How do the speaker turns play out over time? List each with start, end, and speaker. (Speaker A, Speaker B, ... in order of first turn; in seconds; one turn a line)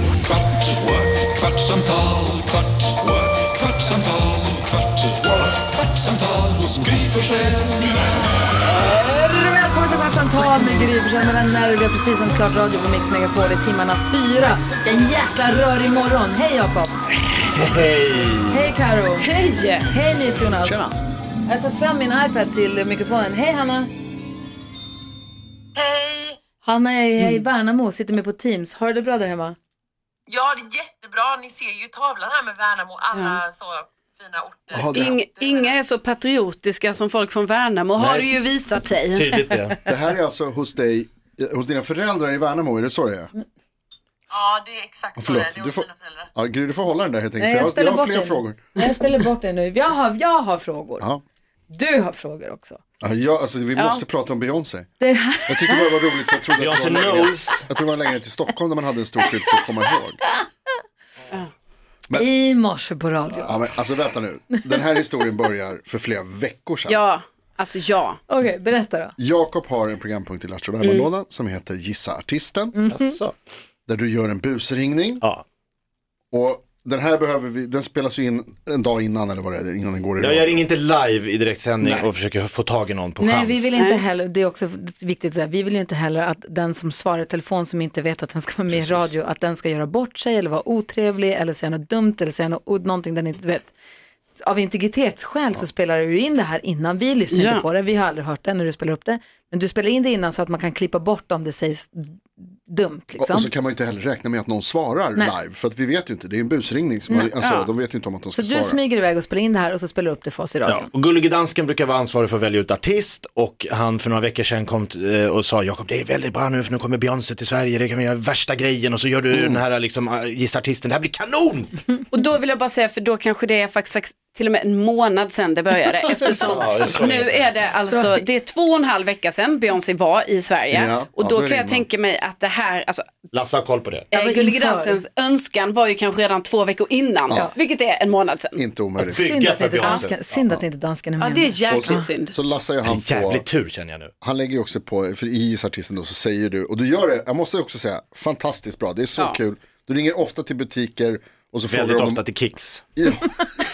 Speaker A: 0.2-7.9
Speaker B: 8.7-17.0
Speaker C: 17.3-18.7
Speaker B: 18.5-19.3
Speaker D: 19.2-19.8
Speaker B: 19.8-20.8
Speaker E: 20.6-20.9
Speaker B: 21.4-23.9
Speaker F: 25.8-26.3
Speaker B: 26.6-29.6
Speaker F: 30.3-34.7
Speaker D: 33.1-33.4
Speaker E: 34.7-35.2
Speaker D: 34.9-39.4
Speaker C: 38.0-38.3
Speaker C: 39.1-39.8
Speaker E: 39.9-43.3
Speaker F: 44.4-45.5
Speaker E: 45.1-48.6
Speaker B: 47.4-51.1
Speaker B: 51.7-52.8
Speaker E: 53.0-54.9
Speaker D: 53.8-54.0
Speaker B: 55.0-55.8
Speaker E: 55.5-60.2
Speaker C: 56.5-57.7
Speaker B: 62.1-63.6
Speaker E: 63.4-67.0
Speaker D: 66.9-68.2
Speaker B: 68.3-69.1
Speaker E: 69.2-72.8
Speaker D: 70.8-71.1
Speaker B: 72.7-73.2
Speaker C: 72.9-73.3
Speaker E: 73.9-75.2
Speaker E: 76.3-80.7
Speaker C: 80.2-83.8
Speaker E: 81.8-82.1
Speaker B: 83.2-93.7
Speaker D: 83.7-84.0
Speaker E: 88.7-89.1
Speaker B: 94.4-102.1
Speaker D: 97.3-97.6
Speaker B: 102.7-103.5
Speaker E: 103.2-108.8
Speaker B: 107.1-107.3
Speaker D: 107.3-107.7
Speaker B: 108.3-110.9
Speaker C: 110.6-121.8
Speaker E: 119.3-119.6
Speaker D: 122.1-133.1
Speaker C: 126.4-127.5
Speaker E: 130.7-131.9
Speaker C: 133.3-134.1
Speaker B: 134.1-135.0
Speaker D: 134.1-138.6
Speaker E: 138.6-139.4
Speaker C: 139.0-140.4
Speaker B: 139.1-142.1
Speaker D: 141.2-142.3
Speaker E: 141.7-143.5
Speaker C: 142.8-144.1
Speaker E: 144.2-152.2
Speaker C: 151.7-152.8
Speaker E: 152.9-153.5